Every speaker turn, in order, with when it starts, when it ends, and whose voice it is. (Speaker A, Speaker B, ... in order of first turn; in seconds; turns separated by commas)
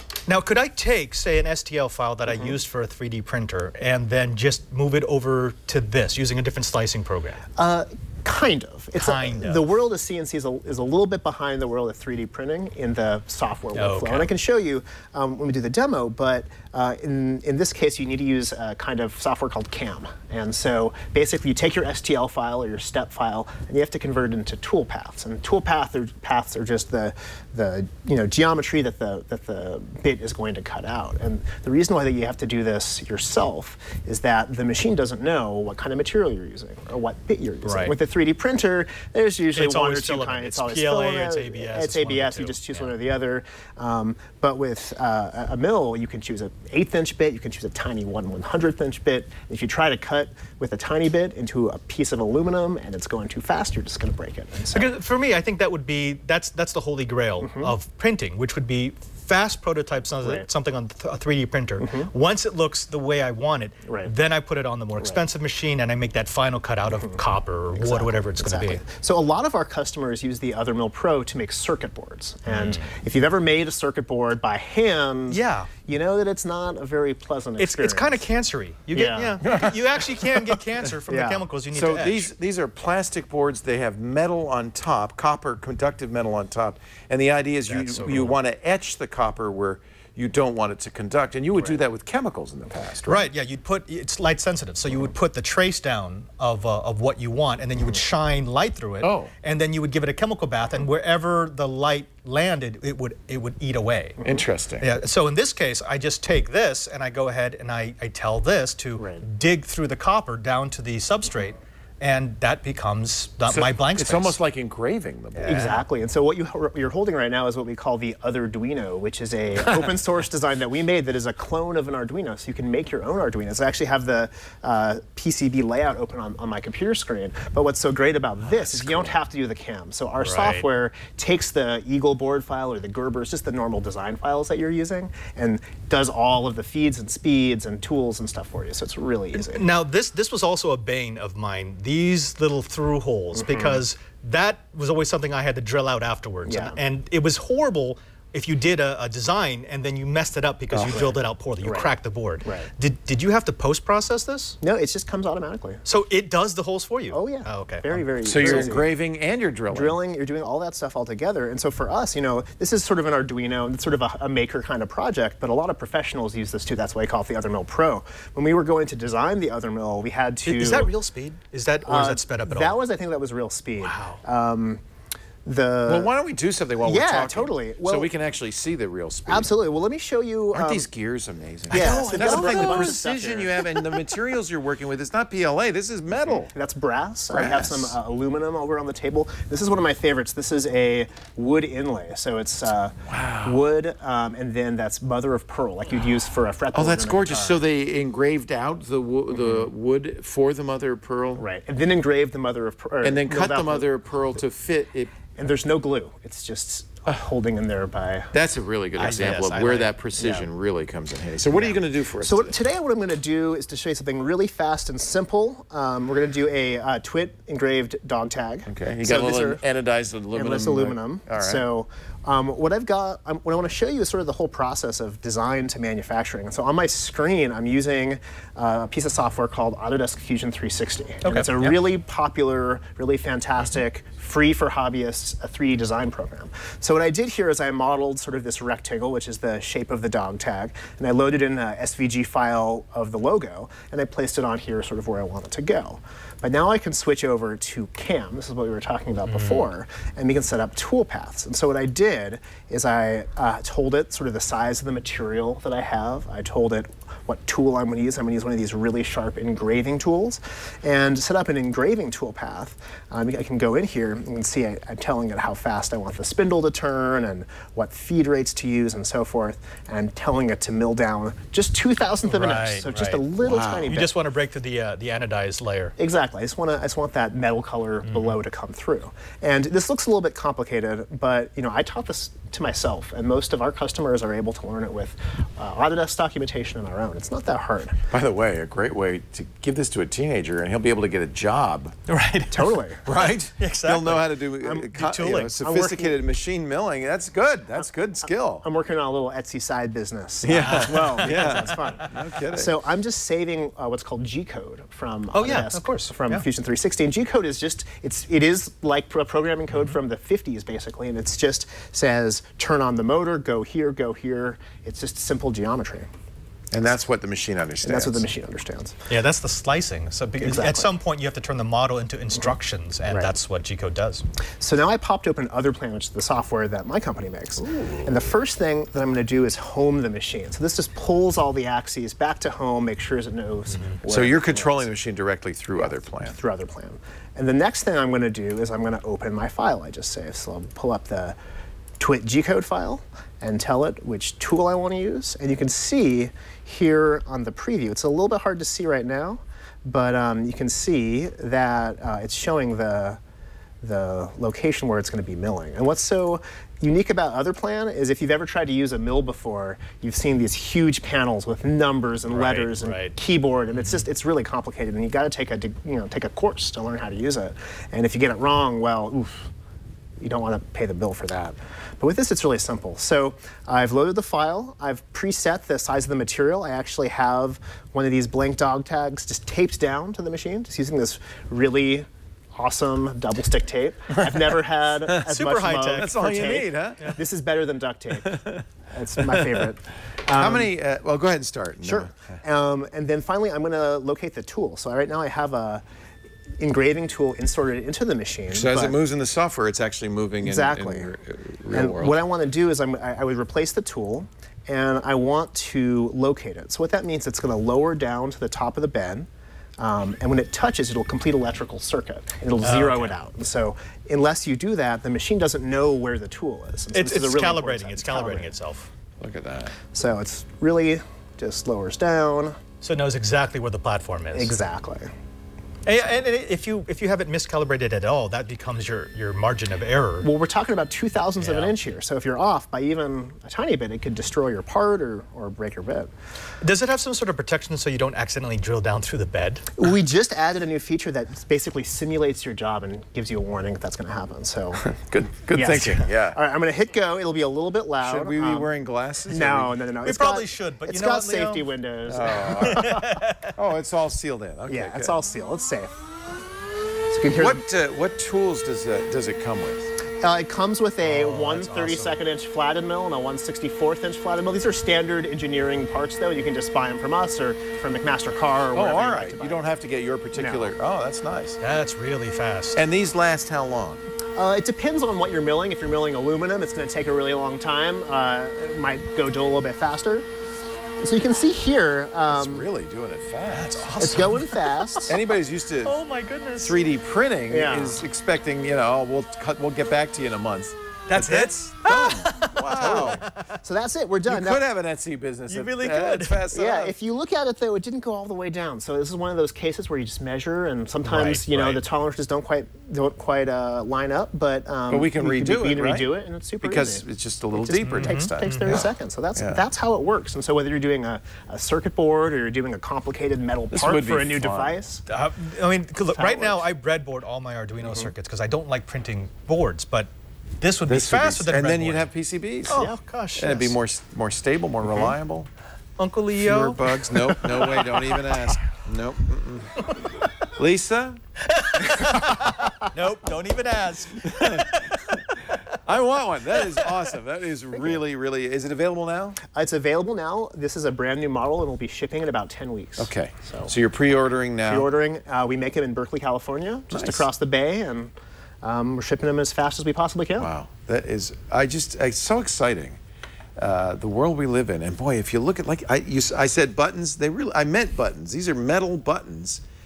Speaker A: 0.3-7.4, Speaker B: 2.3-2.6, Speaker B: 7.6-54.9, Speaker A: 8.9-9.7, Speaker A: 13.7-14.3, Speaker A: 37.6-38.0, Speaker A: 39.5-42.9, Speaker A: 54.7-68.8, Speaker B: 57.4-57.8, Speaker B: 60.2-60.5, Speaker B: 61.8-62.1, Speaker B: 63.9-64.1, Speaker B: 66.9-67.2, Speaker B: 67.8-78.2, Speaker A: 72.5-72.8, Speaker A: 75.3-75.7, Speaker A: 77.6-82.3, Speaker B: 78.9-79.4, Speaker C: 79.4-79.8, Speaker B: 81.1-81.5, Speaker C: 81.7-93.3, Speaker A: 87.7-88.4, Speaker A: 93.0-104.2, Speaker C: 99.0-99.3, Speaker C: 104.2-104.9, Speaker A: 104.8-114.4, Speaker B: 109.0-109.2, Speaker C: 113.5-115.6, Speaker A: 115.3-115.8, Speaker B: 115.5-139.7, Speaker C: 128.5-129.1, Speaker A: 130.2-130.7, Speaker A: 139.3-154.6, Speaker B: 143.3-143.8, Speaker B: 146.5-146.8, Speaker C: 150.7-151.0, Speaker B: 150.9-151.9, Speaker B: 154.6-155.8, Speaker A: 155.8-158.1, Speaker B: 157.1-158.9, Speaker C: 158.2-160.0, Speaker B: 159.7-170.9, Speaker A: 170.4-172.8, Speaker B: 171.8-174.8, Speaker A: 173.8-174.2, Speaker B: 175.4-176.1, Speaker C: 175.9-179.5, Speaker B: 176.8-178.1, Speaker B: 179.3-180.9, Speaker C: 180.5-186.5, Speaker B: 181.7-184.0, Speaker A: 181.8-182.9, Speaker B: 186.3-197.6, Speaker C: 187.3-188.0, Speaker C: 193.1-193.6, Speaker C: 196.7-201.4, Speaker B: 199.3-199.7, Speaker B: 201.4-203.9, Speaker C: 203.0-205.2, Speaker B: 205.3-208.3, Speaker C: 208.3-212.6, Speaker A: 209.0-210.0, Speaker B: 210.2-210.5, Speaker B: 212.2-219.6, Speaker C: 218.7-221.7, Speaker B: 220.3-274.2, Speaker A: 231.2-231.8, Speaker A: 249.2-249.7, Speaker A: 272.2-276.0, Speaker C: 273.4-274.0, Speaker B: 276.0-288.0, Speaker A: 278.0-278.4, Speaker C: 288.1-291.9, Speaker A: 292.1-294.4, Speaker B: 292.5-293.0, Speaker C: 293.1-298.6, Speaker B: 294.6-294.9, Speaker A: 294.9-295.6, Speaker B: 295.6-296.2, Speaker B: 297.8-316.1, Speaker C: 300.4-302.7, Speaker A: 300.4-302.3, Speaker A: 305.3-306.5, Speaker A: 309.7-310.0, Speaker C: 316.7-318.3, Speaker B: 317.8-319.0, Speaker A: 319.1-324.2, Speaker B: 320.4-320.9, Speaker B: 324.6-334.9, Speaker C: 327.6-328.3, Speaker A: 333.7-334.0, Speaker C: 334.1-336.4, Speaker B: 335.8-341.4, Speaker B: 342.0-353.2, Speaker B: 353.8-369.5, Speaker A: 362.3-363.1, Speaker A: 363.7-364.1, Speaker B: 370.2-388.4, Speaker C: 385.0-385.4, Speaker A: 385.2-387.2, Speaker C: 385.9-387.1, Speaker C: 388.2-388.6, Speaker B: 388.9-390.7, Speaker C: 389.3-389.7, Speaker C: 390.3-392.2, Speaker B: 391.8-395.8, Speaker B: 396.6-399.0, Speaker C: 398.5-402.2, Speaker B: 400.4-401.1, Speaker B: 401.7-409.3, Speaker B: 409.8-418.5, Speaker A: 412.6-413.1, Speaker A: 416.9-418.9, Speaker C: 419.2-419.8, Speaker B: 419.9-422.5, Speaker A: 422.8-424.5, Speaker B: 424.3-425.1, Speaker A: 425.9-430.3, Speaker B: 430.2-436.1, Speaker A: 431.4-431.8, Speaker A: 436.6-439.8, Speaker B: 439.8-444.9, Speaker C: 444.8-446.4, Speaker B: 445.5-448.7, Speaker C: 448.0-449.8, Speaker B: 449.3-453.2, Speaker A: 450.0-451.7, Speaker C: 452.1-452.8, Speaker A: 452.6-453.5, Speaker C: 453.6-455.2, Speaker B: 454.7-455.9, Speaker B: 457.1-457.6, Speaker C: 457.3-459.9, Speaker B: 460.2-469.6, Speaker A: 461.0-462.2, Speaker C: 468.7-471.6, Speaker B: 470.3-470.7, Speaker A: 471.6-472.8, Speaker C: 472.8-474.0, Speaker B: 474.4-480.3, Speaker B: 481.0-482.7, Speaker C: 482.2-484.0, Speaker A: 483.5-485.2, Speaker B: 484.0-485.2, Speaker C: 485.1-486.0, Speaker A: 485.8-486.8, Speaker C: 486.6-493.2, Speaker B: 487.5-488.0, Speaker A: 491.1-493.5, Speaker B: 492.8-494.6, Speaker C: 494.3-496.9, Speaker A: 495.5-496.4, Speaker B: 496.5-515.0, Speaker A: 501.0-501.8, Speaker C: 504.9-506.1, Speaker C: 506.6-509.6, Speaker A: 507.8-508.9, Speaker C: 513.7-514.8, Speaker A: 515.1-522.1, Speaker B: 516.1-516.6, Speaker B: 517.8-518.1, Speaker C: 520.9-522.8, Speaker A: 522.7-523.7, Speaker B: 522.7-523.0, Speaker C: 523.3-525.5, Speaker B: 524.8-525.1, Speaker A: 526.0-528.6, Speaker C: 526.4-529.9, Speaker A: 529.8-530.3, Speaker C: 530.6-531.2, Speaker A: 531.4-535.6, Speaker C: 531.8-532.1, Speaker C: 534.2-539.4, Speaker A: 536.5-537.1, Speaker B: 537.7-538.0, Speaker B: 539.5-543.7, Speaker C: 543.0-544.9, Speaker B: 544.6-550.5, Speaker C: 546.9-547.3, Speaker C: 550.4-553.0, Speaker C: 553.6-559.6